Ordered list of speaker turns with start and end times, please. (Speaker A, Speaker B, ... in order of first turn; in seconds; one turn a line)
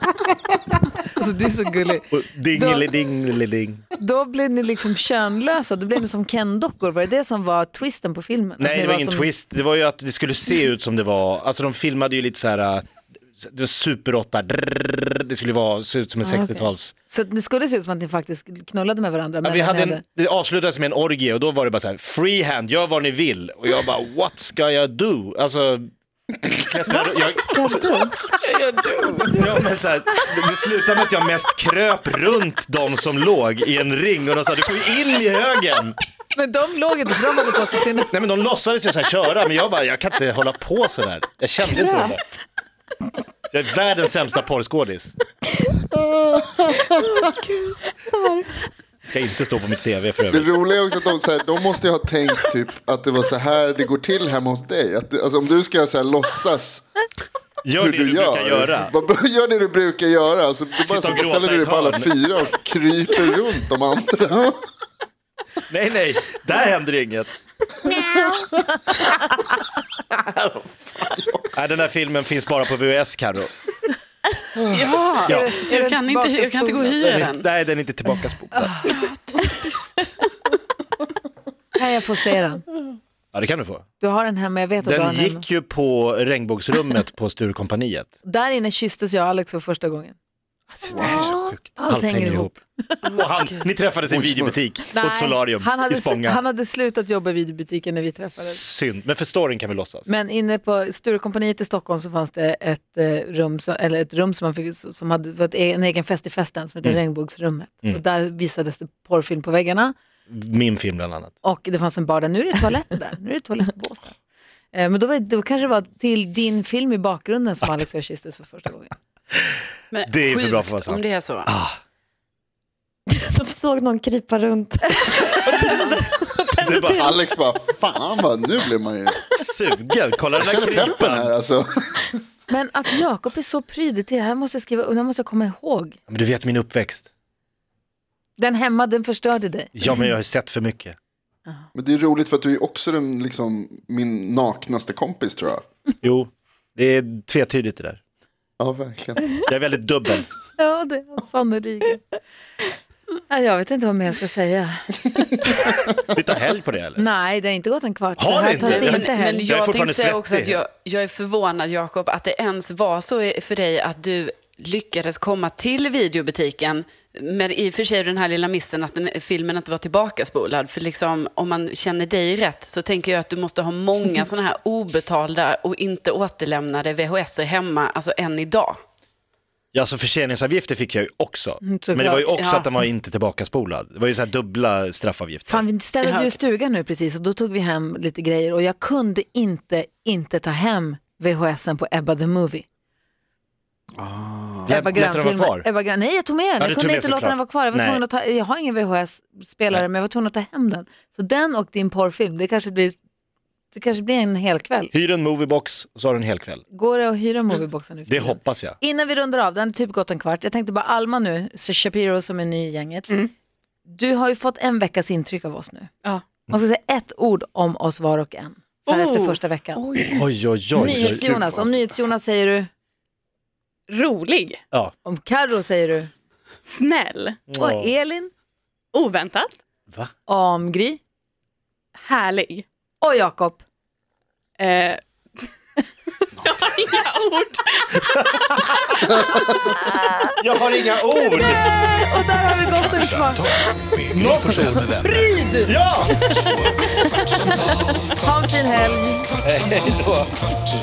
Speaker A: 1.0-2.9
Speaker B: 2.1-3.9
Speaker A: 4.0-9.3
Speaker B: 8.6-12.8
Speaker B: 13.4-16.9
Speaker A: 16.2-20.0
Speaker B: 19.4-25.9
Speaker B: 26.4-28.1
Speaker A: 26.9-29.4
Speaker B: 29.4-36.0
Speaker A: 36.3-38.1
Speaker B: 38.1-42.2
Speaker C: 41.6-42.2
Speaker B: 43.5-45.1
Speaker D: 45.9-47.2
Speaker C: 47.0-48.6
Speaker B: 49.0-50.5
Speaker D: 50.3-56.9
Speaker B: 57.6-58.9
Speaker D: 57.8-64.7
Speaker B: 60.8-62.1
Speaker B: 65.7-67.3
Speaker D: 67.9-69.3
Speaker D: 70.0-71.5
Speaker B: 71.5-73.5
Speaker D: 74.6-75.0
Speaker E: 74.7-77.5
Speaker A: 75.2-77.0
Speaker B: 77.0-79.0
Speaker A: 78.7-78.9
Speaker E: 78.9-79.4
Speaker A: 81.7-82.6
Speaker B: 83.3-83.8
Speaker A: 84.0-85.4
Speaker B: 84.8-88.1
Speaker A: 88.2-90.2
Speaker B: 90.7-96.4
Speaker A: 91.0-93.3
Speaker E: 93.1-93.5
Speaker D: 94.1-94.6
Speaker A: 94.9-98.6
Speaker B: 98.3-100.1
Speaker A: 100.0-109.9
Speaker B: 110.3-111.3
Speaker A: 111.4-114.2
Speaker A: 114.7-118.9
Speaker B: 119.3-121.8
Speaker E: 119.9-121.5
Speaker F: 123.2-125.2
Speaker A: 125.6-125.9
Speaker B: 126.5-127.1
Speaker D: 126.9-129.2
Speaker B: 129.3-131.3
Speaker D: 130.4-132.1
Speaker A: 132.5-136.0
Speaker B: 136.1-137.1
Speaker A: 138.4-139.7
Speaker B: 139.7-140.9
Speaker D: 141.7-145.6
Speaker B: 146.0-148.0
Speaker D: 148.6-149.3
Speaker B: 149.4-150.3
Speaker A: 150.6-152.0
Speaker A: 153.3-155.5
Speaker B: 156.1-157.0
Speaker A: 156.9-159.5
Speaker B: 158.2-160.6
Speaker E: 158.6-178.8
Speaker B: 179.7-185.7
Speaker A: 181.6-182.2
Speaker E: 182.3-182.7
Speaker A: 185.5-192.7
Speaker E: 186.0-186.4
Speaker D: 194.0-194.8
Speaker A: 194.7-203.0
Speaker B: 194.7-195.7
Speaker B: 196.6-198.0
Speaker A: 203.7-204.9
Speaker B: 204.9-206.6
Speaker A: 206.7-213.1
Speaker B: 208.1-208.8
Speaker A: 213.9-215.9
Speaker C: 216.0-216.3
Speaker A: 216.5-220.1
Speaker C: 218.8-219.4
Speaker B: 219.9-221.3
Speaker A: 220.7-222.7
Speaker D: 220.8-221.9
Speaker C: 223.9-224.6
Speaker A: 225.0-226.1
Speaker C: 226.6-227.5
Speaker B: 227.5-227.9
Speaker A: 227.6-228.3
Speaker C: 228.9-229.5
Speaker A: 230.2-231.0
Speaker C: 232.0-232.6
Speaker A: 233.0-233.6
Speaker C: 234.6-235.5
Speaker C: 236.2-238.7
Speaker B: 238.4-239.0
Speaker A: 239.5-240.3
Speaker B: 240.4-241.6
Speaker A: 241.4-243.7
Speaker G: 242.6-245.4
Speaker B: 244.1-244.9
Speaker A: 245.0-245.8
Speaker B: 245.6-246.6
Speaker G: 246.0-248.2
Speaker A: 246.8-249.3
Speaker B: 249.4-250.5
Speaker G: 249.5-250.0